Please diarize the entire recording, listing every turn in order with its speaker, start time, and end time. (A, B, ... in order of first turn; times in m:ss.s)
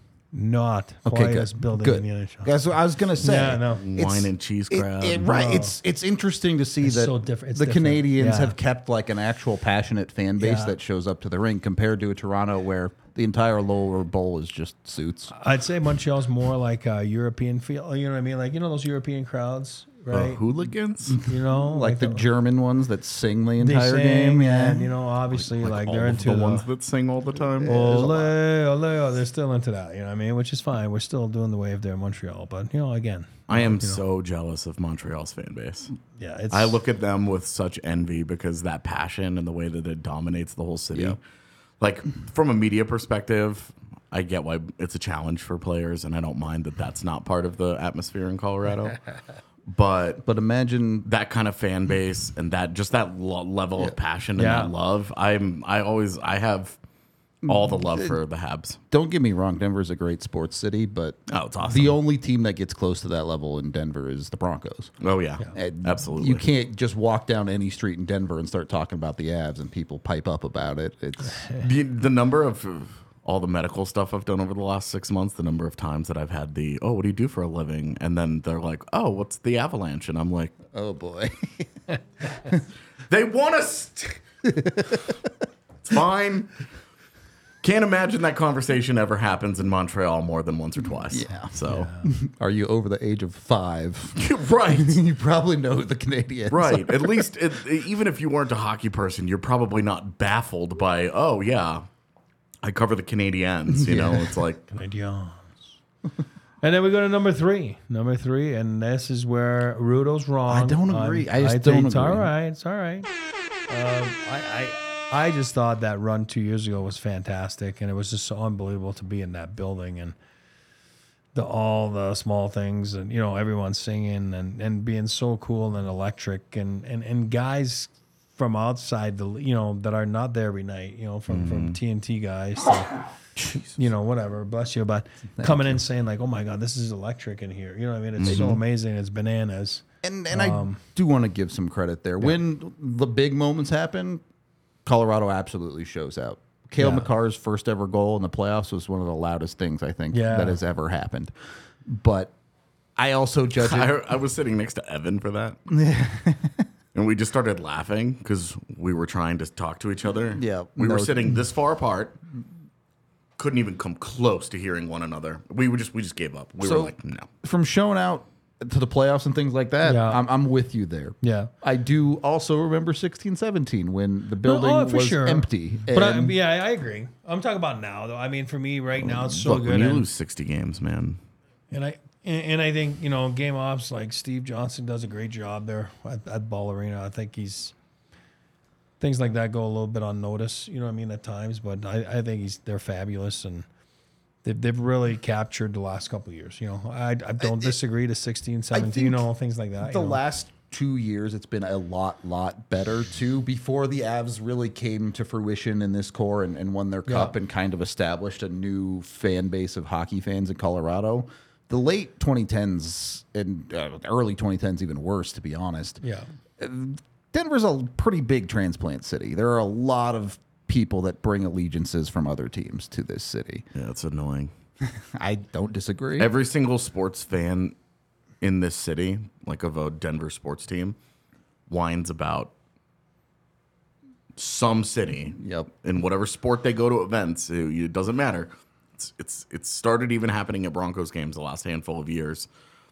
0:00.3-0:02.5 A
0:01.0-0:15.3 B
0:03.2-0:03.8 A
0:03.8-0:05.3 C
0:05.2-0:05.7 A
0:06.8-0:08.6 A
0:10.4-0:10.8 A
0:15.3-0:20.4 A
0:20.1-0:21.2 C
0:21.2-0:22.2 A
0:21.5-0:24.9 B
0:23.6-0:26.7 A
0:25.4-0:28.2 C
0:27.6-0:28.2 B
0:27.6-0:34.0 A
0:33.5-0:35.9 C
0:36.2-0:36.8 A
0:36.5-0:41.2 C
0:41.8-0:49.0 C
0:49.7-0:50.2 C
0:50.2-0:51.1 B
0:51.0-0:56.8 C
0:54.4-0:54.7 A
0:57.4-0:58.8 C
0:57.4-0:58.2 B
0:58.9-1:04.9 B
1:01.3-1:02.0 C
1:05.0-1:06.4 C
1:05.5-1:11.5 B
1:11.6-1:20.6 C
1:20.7-1:21.7 B
1:23.1-1:24.2 C
1:24.4-1:25.0 B
1:25.8-1:26.5 C
1:27.6-1:31.9 C
1:31.1-1:37.3 B
1:31.6-1:32.1 A
1:34.2-1:35.0 C
1:36.5-1:41.8 C
1:42.6-1:44.6 C
1:43.7-1:44.3 B
1:44.7-1:45.6 A
1:46.6-1:53.1 A
1:50.5-1:52.3 B
1:53.7-2:00.2 A
2:01.3-2:13.0 A
2:11.3-2:11.8 C
2:13.4-2:13.8 C
2:13.8-2:20.8 A
2:15.4-2:15.8 B
2:18.2-2:18.6 C
2:18.3-2:18.6 B
2:20.0-2:24.2 B
2:24.8-2:31.3 B
2:26.8-2:27.1 A
2:30.1-2:30.6 A
2:31.8-2:32.3 B
2:33.0-2:33.9 B
2:33.6-2:35.6 C
2:35.7-2:36.7 B
2:36.9-2:42.2 C
2:40.3-2:41.2 B
2:43.4-2:47.3 C
2:46.6-2:56.3 B
2:49.8-2:50.2 A
2:51.2-2:51.5 A
2:54.4-3:00.0 A
2:59.0-3:01.2 C
3:01.7-3:07.7 A
3:09.0-3:13.7 A
3:14.4-3:20.2 A
3:17.4-3:17.7 B
3:18.7-3:19.3 B
3:19.8-3:36.0 B
3:27.1-3:27.3 A
3:36.0-3:36.3 A
3:36.6-3:43.6 B
3:43.7-3:44.5 C
3:44.8-3:46.3 B
3:46.2-3:47.8 C
3:48.4-3:51.0 C
3:51.7-3:52.5 C
3:54.4-4:02.5 C
3:55.4-3:55.7 B